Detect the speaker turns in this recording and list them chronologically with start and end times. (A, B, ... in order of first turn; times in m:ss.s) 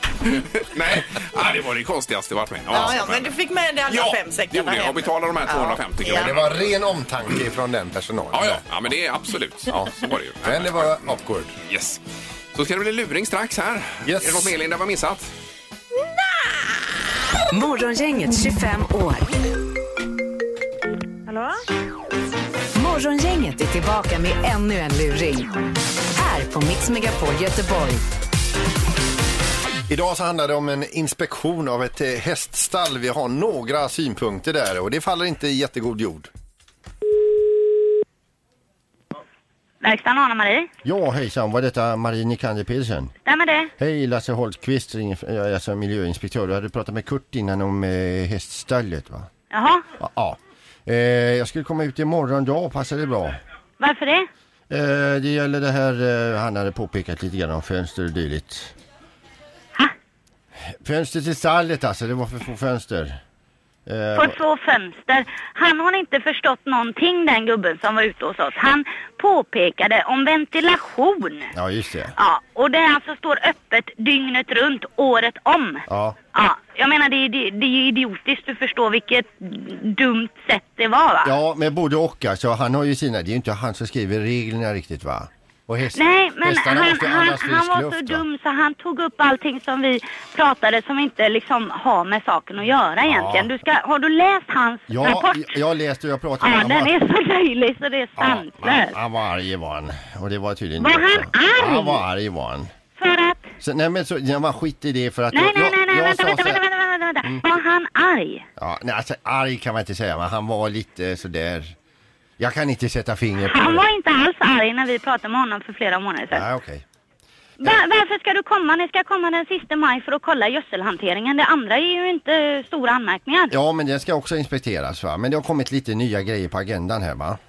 0:00.3-0:03.3 A
0:02.7-0:06.3 B
0:03.9-0:06.7 A
0:06.0-0:08.6 C
0:08.3-0:11.0 A
0:09.7-0:11.5 C
0:11.7-0:12.0 A
0:12.5-0:15.3 A
0:14.0-0:14.5 C
0:17.5-0:19.2 D
0:22.8-0:25.5 D
0:26.2-0:28.0 D
0:29.9-0:36.3 C
0:39.8-0:40.7 E
0:40.8-0:43.1 F
0:43.2-0:43.7 E
0:43.8-0:49.3 F
0:49.5-0:49.9 E
0:50.0-0:53.4 F
0:53.8-0:54.3 E
0:54.7-0:58.7 F
1:00.8-1:03.2 F
1:03.9-1:04.4 F
1:04.2-1:11.5 E
1:11.6-1:12.1 F
1:12.2-1:21.4 E
1:15.9-1:16.2 F
1:21.2-1:28.2 F
1:25.9-1:35.6 E
1:33.0-1:33.5 F
1:34.9-1:36.9 F
1:36.4-1:39.0 E
1:38.2-1:42.7 F
1:40.8-1:42.0 E
1:43.0-1:43.5 E
1:43.6-1:46.6 F
1:45.3-1:48.5 E
1:48.6-1:51.8 F
1:52.4-1:53.8 F
1:53.4-1:56.5 E
1:56.3-1:56.8 F
1:57.6-2:03.5 E
2:03.5-2:07.4 F